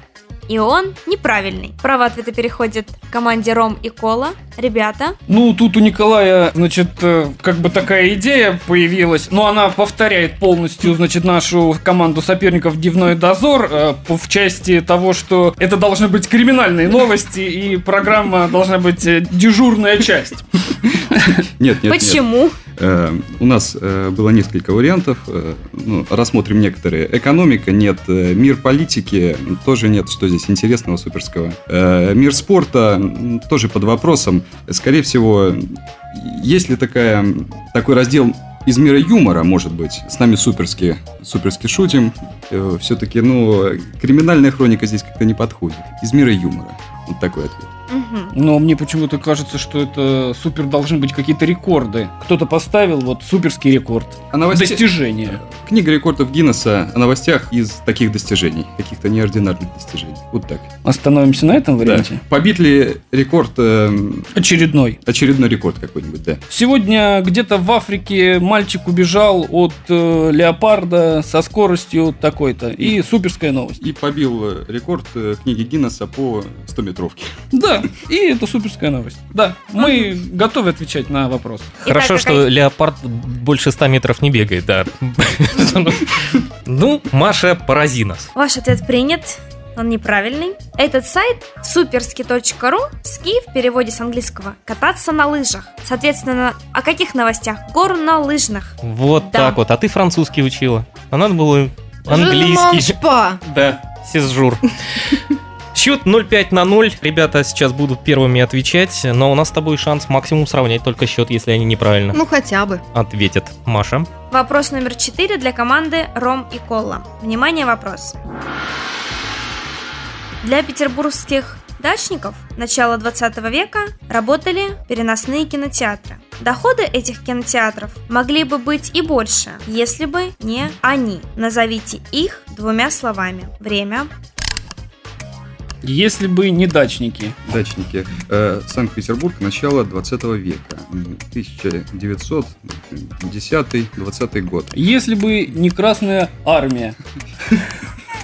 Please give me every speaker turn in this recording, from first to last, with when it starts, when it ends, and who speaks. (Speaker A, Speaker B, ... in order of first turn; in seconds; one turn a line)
Speaker A: 0.5-5.2
Speaker B: 5.3-20.4
Speaker C: 21.6-47.7
Speaker A: 21.8-22.6
Speaker A: 47.9-48.3
Speaker B: 48.3-55.4
Speaker C: 54.3-60.7
Speaker B: 60.8-62.2
Speaker C: 61.8-64.3
Speaker B: 64.3-65.0
Speaker C: 65.0-66.4
Speaker B: 66.5-73.8
Speaker C: 73.8-77.3
Speaker B: 77.5-81.8
Speaker A: 81.8-82.5
Speaker D: 81.9-88.3
Speaker A: 88.3-99.6
Speaker D: 98.8-104.6
Speaker E: 102.1-103.4
Speaker D: 105.7-112.2
Speaker E: 112.1-112.8
Speaker D: 112.9-114.1
Speaker A: 114.3-118.2
Speaker A: 120.4-134.1
Speaker B: 135.8-137.3
Speaker C: 137.5-144.7
Speaker B: 144.7-146.9